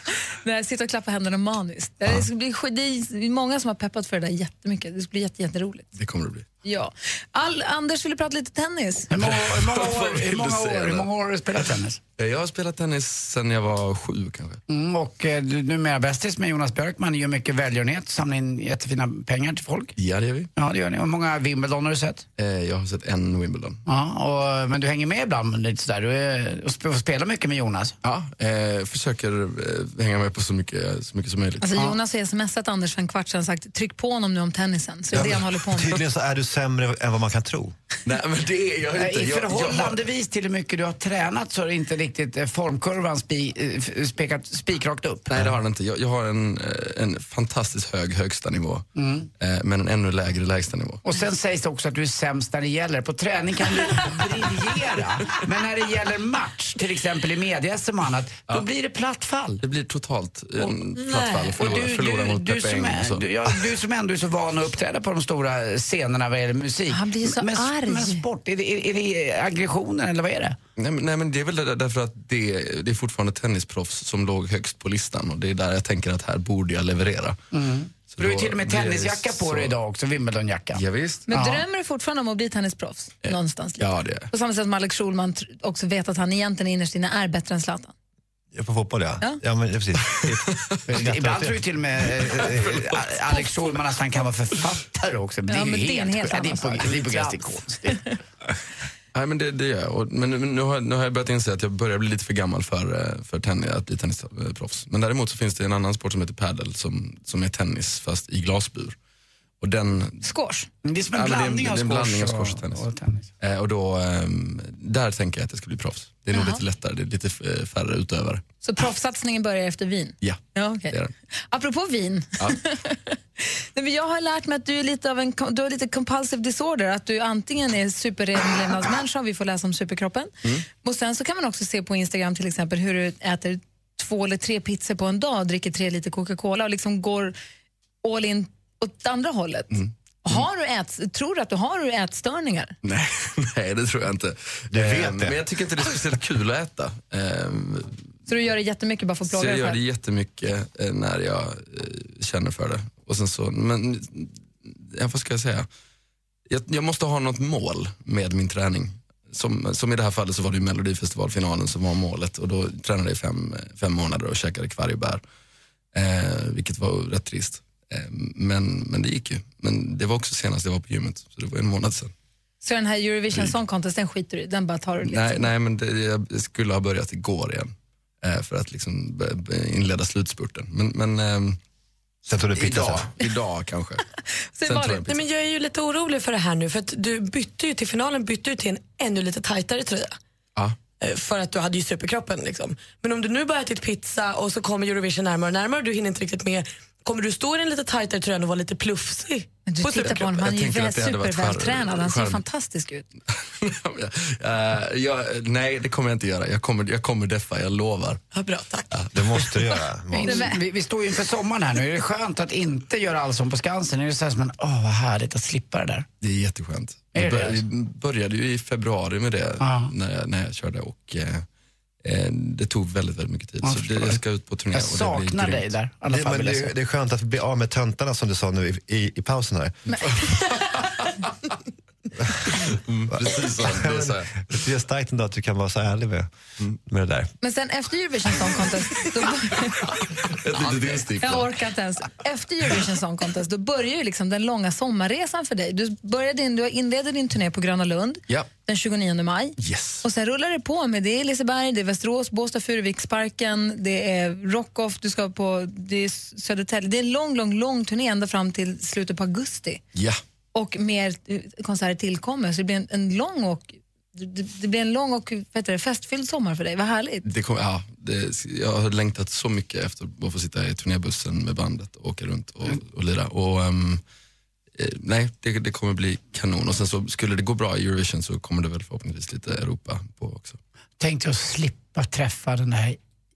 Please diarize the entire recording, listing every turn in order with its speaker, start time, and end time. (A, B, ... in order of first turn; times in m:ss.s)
0:00.4-0:05.9 A
0:06.0-0:06.5 B
0:06.6-0:09.1 A
0:09.1-0:12.0 C
0:09.1-0:11.1 B
0:12.2-0:14.6 B
0:14.7-0:19.9 C
0:20.0-0:20.5 B
0:20.6-0:22.2 C
0:22.4-0:23.8 B
0:23.8-0:27.9 C
0:28.0-0:31.8 B
0:31.6-0:36.0 A
0:35.1-0:37.7 D
0:38.0-0:40.0 B
0:39.0-0:45.4 C
0:45.3-0:48.9 B
0:49.0-0:49.3 C
0:49.4-0:51.0 B
0:51.0-0:59.6 C
0:59.6-1:03.3 B
1:01.0-1:01.6 E
1:01.6-1:10.6 C
1:06.9-1:08.2 A
1:10.8-1:17.4 B
1:17.5-1:21.6 C
1:18.1-1:19.7 B
1:20.7-1:21.3 B
1:21.3-1:27.9 A
1:23.2-1:24.3 B
1:28.5-1:32.8 D
1:30.9-1:38.1 C
1:35.5-1:37.3 A
1:39.1-1:49.0 B
1:49.6-1:50.2 B
1:50.2-1:50.7 A
1:50.8-1:53.3 C
1:51.1-1:52.8 B
1:53.4-1:58.4 B
1:56.3-1:56.6 A
1:58.6-2:01.0 A
2:00.2-2:01.1 B
2:01.5-2:17.4 A
2:18.0-2:22.7 A
2:19.7-2:20.4 B
2:22.8-2:28.0 B
2:24.7-2:25.4 D
2:28.3-2:29.8 A
2:29.3-2:35.7 B
2:36.5-2:45.2 B
2:45.9-2:52.1 B
2:52.6-2:55.5 A
2:55.0-3:01.6 B
3:02.2-3:03.1 D
3:02.5-3:04.0 B
3:04.5-3:05.0 A
3:04.6-3:05.2 B
3:05.1-3:10.2 E
3:11.0-3:20.2 E
3:19.6-3:23.1 A
3:20.0-3:22.4 B
3:23.6-3:28.2 B
3:28.3-3:28.9 E
3:28.9-3:29.5 B
3:29.1-3:30.4 D
3:30.2-3:30.6 A
3:30.2-3:36.1 C
3:36.2-3:41.4 B
3:37.1-3:37.6 C
3:39.6-3:39.9 C
3:42.0-3:45.7 B
3:43.6-3:44.2 C
3:44.7-3:46.7 C
3:46.1-3:49.9 D
3:50.4-3:51.1 B
3:52.6-3:54.4 B
3:53.1-3:56.3 D
3:56.8-3:57.3 D
3:57.4-3:59.9 A
4:00.2-4:01.5 B
4:01.2-4:19.8 A
4:09.6-4:10.0 B
4:19.9-4:20.2 B
4:20.5-4:27.2 A
4:27.2-4:34.0 B
4:34.8-4:40.6 B
4:41.0-4:43.0 C